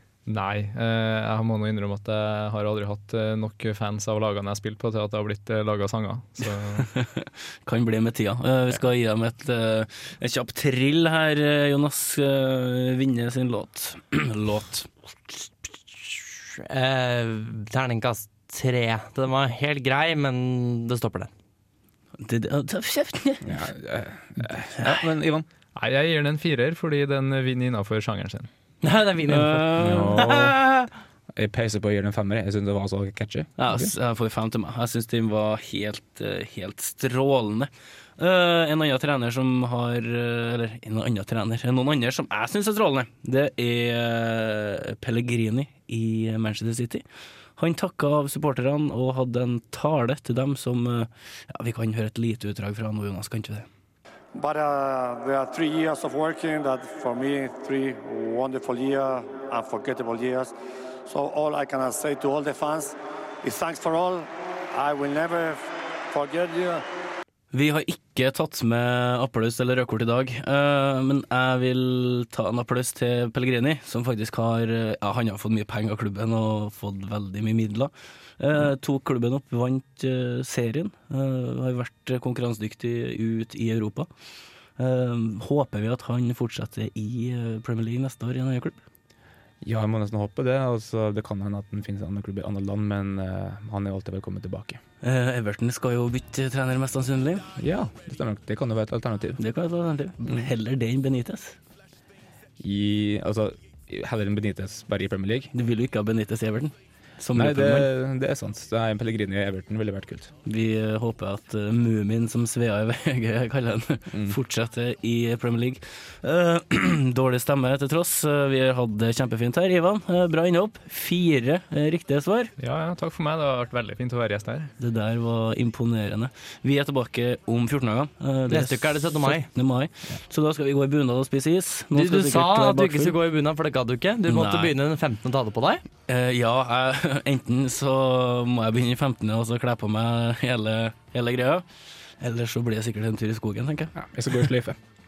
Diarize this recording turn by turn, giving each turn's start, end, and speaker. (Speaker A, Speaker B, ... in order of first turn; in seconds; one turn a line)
Speaker A: 0.3-6.9
Speaker B: 6.8-14.9
Speaker C: 16.0-21.3
Speaker B: 22.2-23.6
Speaker D: 23.4-25.5
Speaker A: 25.8-28.5
Speaker C: 28.8-30.9
Speaker B: 29.2-30.2
Speaker D: 29.8-30.6
Speaker D: 31.3-33.9
Speaker B: 33.6-47.0
Speaker B: 47.6-53.7
Speaker E: 54.3-60.5
Speaker E: 61.0-66.8
Speaker B: 67.5-84.1
Speaker B: 84.8-88.8
Speaker D: 89.6-94.8
Speaker B: 95.0-97.5
Speaker D: 97.6-99.4
Speaker B: 99.4-101.5
Speaker D: 102.6-105.5
Speaker B: 105.5-107.9
Speaker D: 107.3-110.3
Speaker B: 110.4-122.5
Speaker D: 114.1-114.4
Speaker A: 122.6-124.7
Speaker B: 124.8-133.2
Speaker C: 128.5-129.5
Speaker C: 131.9-135.8
Speaker B: 134.3-134.7
Speaker B: 136.1-141.6
Speaker B: 142.2-143.9
Speaker D: 143.9-144.8